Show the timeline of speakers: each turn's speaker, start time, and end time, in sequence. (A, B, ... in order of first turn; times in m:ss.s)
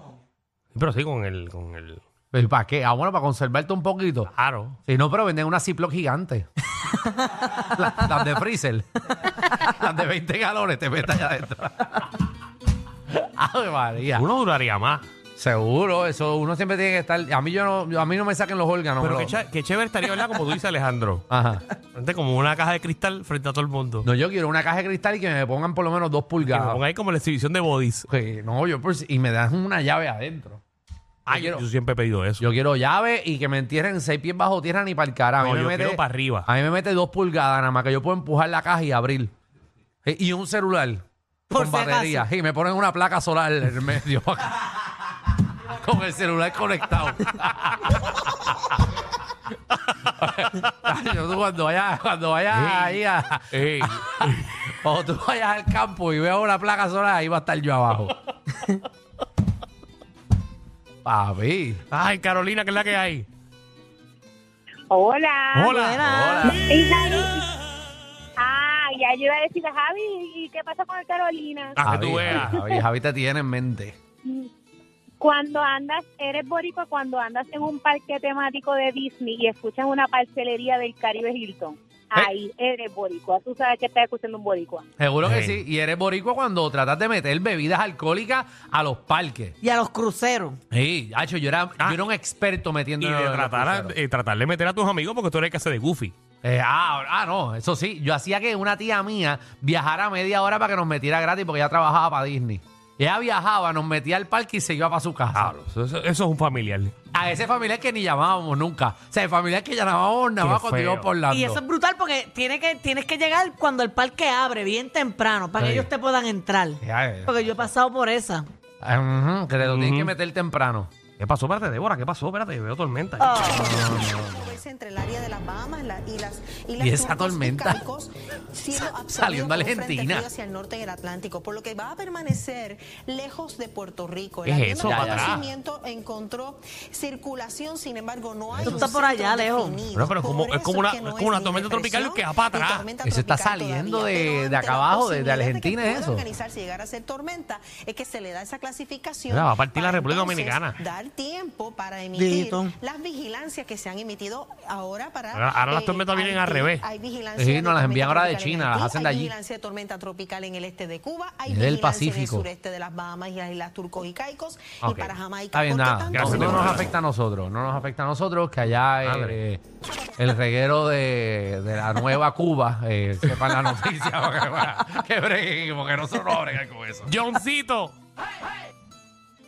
0:00.7-0:02.0 A
0:02.3-0:04.3 B
0:04.3-0:04.8 A
0:04.9-0:06.5 B
0:07.4-0:12.2 B
0:13.1-0:14.2 B
0:14.1-0:15.0 A
0:15.4-0:19.4 B
0:19.0-0:21.2 A
0:21.3-0:21.6 B
0:21.9-0:24.1 A
0:24.0-0:26.8 B
0:26.4-0:28.1 A
0:28.1-0:30.6 B
0:31.3-0:31.6 B
0:31.3-0:32.4 A
0:32.4-0:39.3 B
0:35.4-0:36.5 A
0:40.0-0:44.8 B
0:41.5-0:42.3 C
0:45.6-0:48.5 B
0:50.2-0:58.2 B
0:52.5-0:54.5 A
1:01.0-1:01.8 B
1:01.9-1:03.3 A
1:04.9-1:05.7 D
1:05.5-1:06.4 A
1:05.7-1:06.4 C
1:06.0-1:06.7 B
1:06.4-1:07.4 D
1:08.4-1:11.7 D
1:11.8-1:12.5 A
1:11.8-1:14.0 B
1:12.5-1:12.7 D
1:15.2-1:24.8 D
1:25.0-1:29.6 B
1:25.2-1:25.6 A
1:29.6-1:30.6 C
1:30.7-1:34.0 B
1:33.0-1:36.1 A
1:36.4-1:45.5 B
1:45.3-1:46.9 A
1:47.1-1:51.6 B
1:50.4-1:51.1 A
1:51.3-1:58.4 C
1:55.6-1:55.9 A
1:56.8-1:57.5 B
1:58.8-2:00.9 B
1:59.6-2:00.1 A
2:01.2-2:03.5 A
2:03.2-2:03.7 C
2:03.5-2:46.8 E
2:03.5-2:04.4 B
2:06.8-2:07.8 B
2:08.8-2:10.3 B
2:14.4-2:15.5 A
2:14.8-2:15.4 B
2:18.5-2:18.8 A
2:18.6-2:19.9 C
2:19.9-2:22.9 A
2:23.0-2:26.2 B
2:29.3-2:30.8 A
2:32.1-2:32.7 C
2:35.3-2:36.8 A
2:37.4-2:39.3 B
2:41.5-2:42.5 B
2:44.8-2:45.1 A
2:45.5-2:49.6 B
2:46.1-2:46.9 A
2:49.0-2:49.4 A
2:50.2-2:57.1 B
2:57.1-2:57.9 A